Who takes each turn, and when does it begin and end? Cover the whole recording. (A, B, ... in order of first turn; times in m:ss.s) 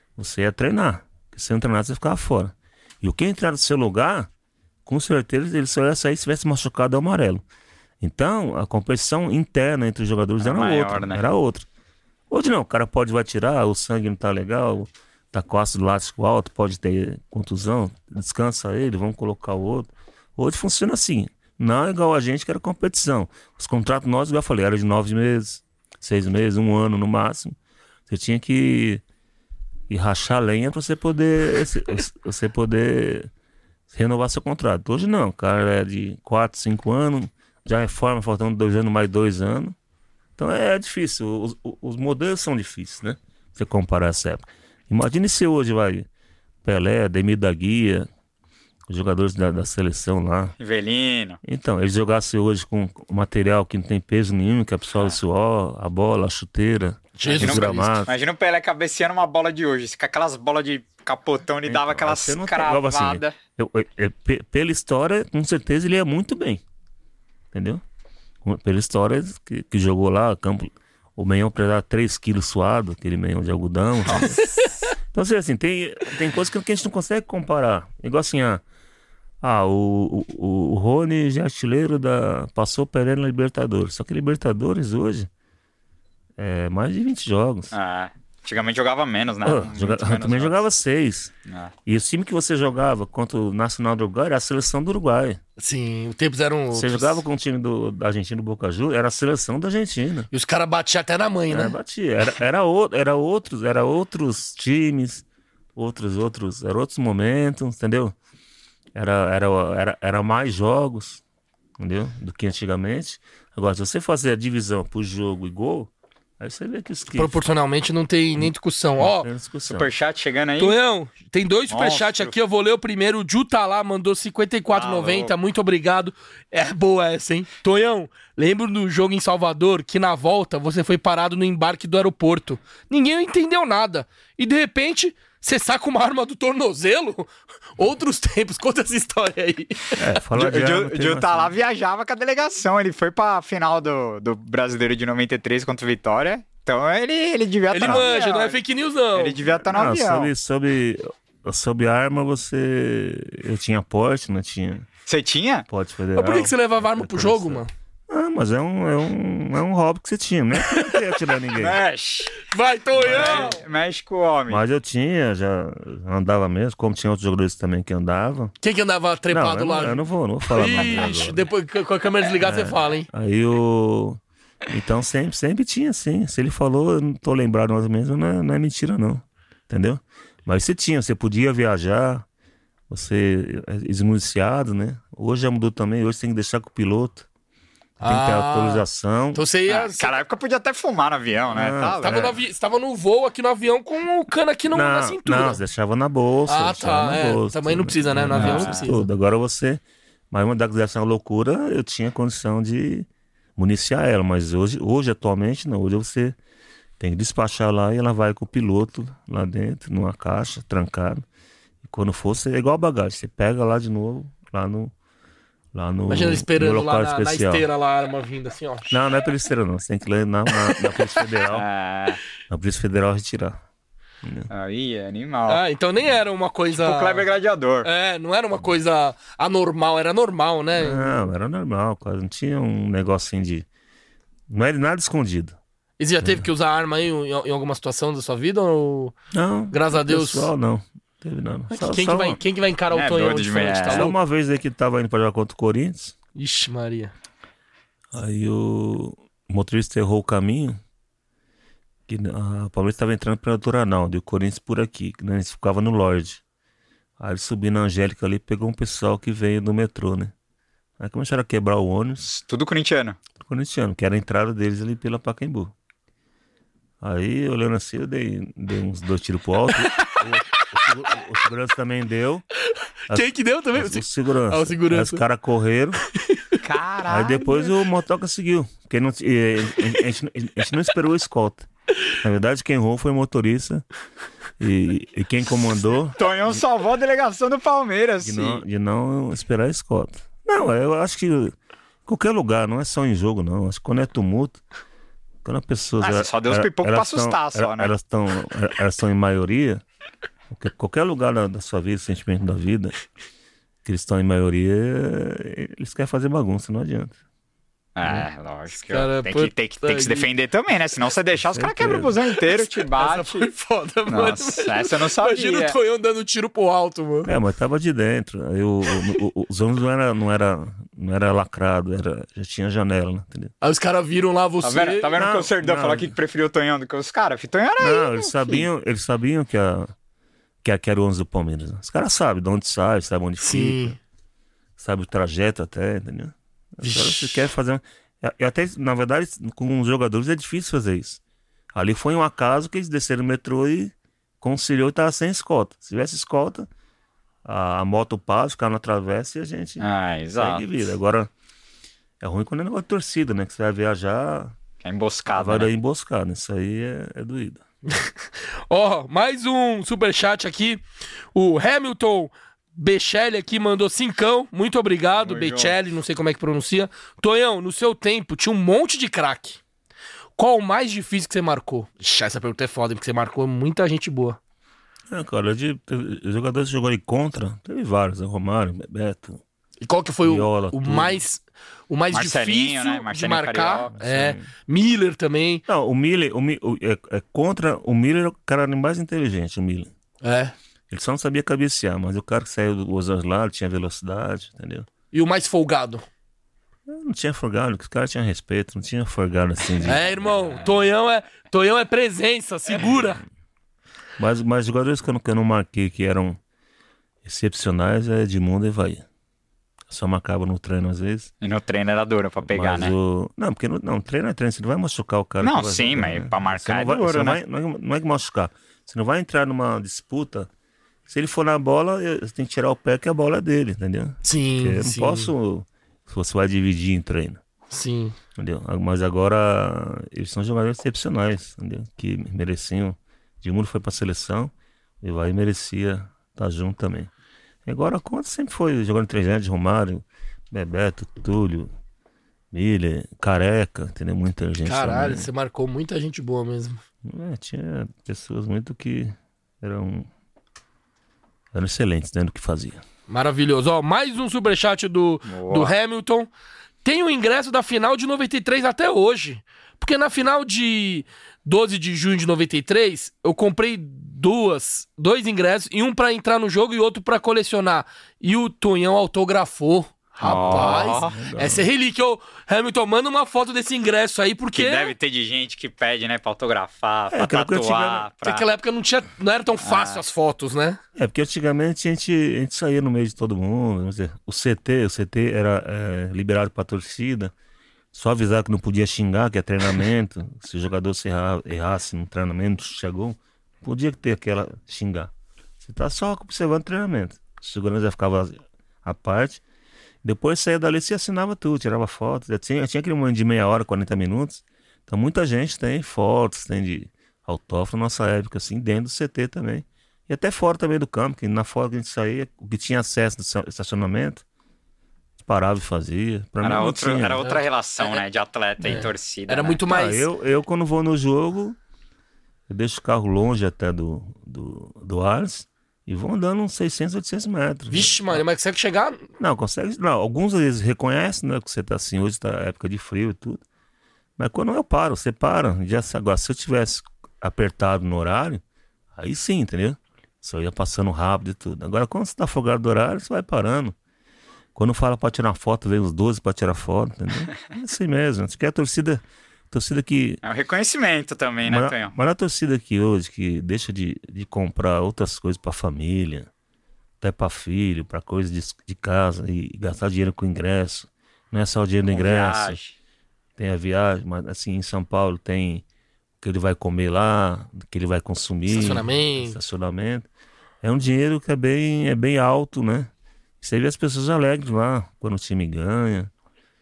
0:00.2-0:04.3 A
0:04.8-0:07.4 A
0:08.0-0:11.7 A
0:10.4-0:11.2 B
0:12.3-0:27.6 A
0:28.1-0:29.0 A
0:29.9-0:33.3 A
0:33.9-0:39.8 A
0:40.4-0:46.1 A
0:46.6-0:48.1 A
0:48.9-0:50.5 A
0:50.6-0:51.4 B
0:51.4-0:58.1 A
0:57.2-0:57.9 C
0:57.4-1:03.3 B
1:01.6-1:06.6 A
1:07.5-1:07.8 A
1:08.4-1:14.4 A
1:14.1-1:14.4 B
1:14.2-1:14.9 C
1:15.1-1:18.6 A
1:19.4-1:25.3 A
1:26.4-1:27.7 A
1:27.7-1:30.6 B
1:29.4-1:31.3 A
1:31.8-1:35.4 A
1:35.6-1:37.2 C
1:36.7-1:40.3 A
1:40.3-1:41.7 C
1:41.5-1:45.2 A
1:45.8-1:48.2 A
1:48.9-1:51.2 A
1:51.8-1:57.4 A
1:57.1-1:59.3 C
1:58.4-1:59.9 A
1:59.7-2:00.8 B
2:00.6-2:20.0 C
2:01.7-2:02.3 B
2:04.7-2:05.3 B
2:20.0-2:21.5 A
2:20.3-2:28.6 B
2:27.7-2:29.4 C
2:29.1-2:30.3 B
2:29.6-2:34.9 A
2:35.0-2:35.6 B
2:35.7-2:41.8 A
2:36.2-2:37.7 C
2:41.5-2:42.3 B
2:42.4-2:43.6 C
2:43.0-2:43.5 A
2:43.0-2:44.6 B
2:44.5-2:48.5 A
2:48.6-2:50.0 C
2:49.3-2:51.4 A
2:50.5-2:53.1 C
2:52.4-3:02.2 A
3:02.9-3:07.3 A
3:08.0-3:09.4 A
3:08.0-3:10.1 C
3:09.7-3:12.3 B
3:11.5-3:12.4 A
3:12.0-3:15.6 C
3:14.7-3:26.4 A
3:16.5-3:19.0 C
3:18.3-3:18.8 B
3:27.0-3:31.2 A
3:31.8-3:34.9 A
3:35.7-3:37.7 A
3:36.1-3:39.0 C
3:38.9-3:41.7 A
3:41.5-3:42.2 B
3:42.5-3:43.6 A
3:44.2-3:44.5 A
3:44.5-3:45.6 B
3:45.5-3:47.2 C
3:46.7-3:47.9 B
3:47.8-3:51.2 C
3:50.7-3:53.7 A
3:54.5-3:55.6 A
3:56.0-3:59.1 C
3:59.3-4:02.4 A
3:59.7-4:00.5 C
4:01.7-4:04.1 C
4:02.9-4:04.1 B
4:03.9-4:06.2 A
4:06.4-4:07.1 C
4:08.1-4:10.8 A
4:12.1-4:16.4 A
4:17.2-4:20.3 A
4:21.0-4:22.2 A
4:22.2-4:23.2 B
4:23.4-4:25.7 A
4:27.0-4:32.4 A
4:32.6-4:35.2 C
4:33.1-4:36.0 A
4:36.2-4:36.6 C
4:36.6-4:37.8 B
4:37.1-4:41.7 A
4:42.2-4:43.8 A
4:44.6-4:46.6 A
4:46.2-4:48.6 B
4:48.2-4:51.5 A
4:52.0-4:54.6 A
4:55.4-4:59.8 A
4:56.0-4:57.9 B
5:00.5-5:03.0 A
5:03.8-5:07.2 A
5:08.0-5:13.5 B
5:08.9-5:10.3 C
5:11.5-5:12.1 A
5:12.5-5:17.3 C
5:14.1-5:15.7 B
5:17.2-5:23.5 A
5:23.6-5:25.0 C
5:24.6-5:28.6 B
5:25.2-5:26.1 A
5:27.8-5:29.9 A
5:30.6-5:34.0 A
5:33.4-5:34.0 C
5:34.8-5:41.2 A
5:36.8-5:37.4 C
5:41.7-5:46.7 A
5:47.4-5:49.8 A
5:49.8-5:50.7 B
5:50.4-5:51.3 A
5:52.2-5:54.5 A
5:54.8-5:55.7 B
5:55.3-5:57.6 A
5:58.7-6:00.8 C
6:01.3-6:09.6 C
6:05.2-6:05.7 B
6:10.4-6:14.4 C
6:15.1-6:19.4 A
6:19.8-6:25.6 C
6:20.2-6:21.2 A
6:22.1-6:23.9 B
6:23.9-6:24.4 A
6:25.7-6:29.9 A
6:30.2-6:30.5 C
6:30.9-6:34.9 A
6:35.1-6:36.0 C
6:36.9-6:40.0 A
6:39.8-6:43.2 C
6:44.2-6:46.4 A
6:47.2-6:49.0 A
6:49.9-6:51.3 A
6:51.4-6:52.9 B
6:52.4-7:00.5 A
6:55.4-6:57.4 B
7:01.1-7:07.4 A
7:04.2-7:05.3 C
7:07.7-7:08.2 C
7:08.4-7:17.1 A
7:17.6-7:21.7 A
7:22.5-7:25.3 A
7:24.6-7:26.8 C
7:27.0-7:30.1 A
7:31.5-7:32.8 A
7:33.1-7:36.3 C
7:35.2-7:35.7 B
7:36.8-7:54.9 C
7:50.2-7:51.1 B
7:50.2-7:51.7 A
7:54.5-7:58.5 B
7:57.1-7:58.0 A
7:58.2-8:00.8 C
7:59.6-8:00.0 B
8:00.9-8:07.3 A
8:07.9-8:15.1 A
8:15.6-8:19.4 A
8:20.0-8:34.2 A
8:35.2-8:37.2 A
8:36.4-8:39.6 B
8:37.2-8:38.0 C
8:38.6-8:40.1 C
8:39.7-8:41.6 A
8:42.5-8:48.2 A
8:47.7-8:49.1 C
8:49.2-8:53.4 A
8:54.2-8:58.4 A
8:58.9-9:03.8 A
9:04.5-9:10.2 A
9:10.2-9:11.9 B
9:11.4-9:16.3 A
9:17.0-9:22.6 A
9:21.9-9:22.7 B
9:23.4-9:25.6 A
9:26.2-9:30.1 A
9:28.5-9:29.4 C
9:30.6-9:32.9 A
9:33.4-9:36.1 A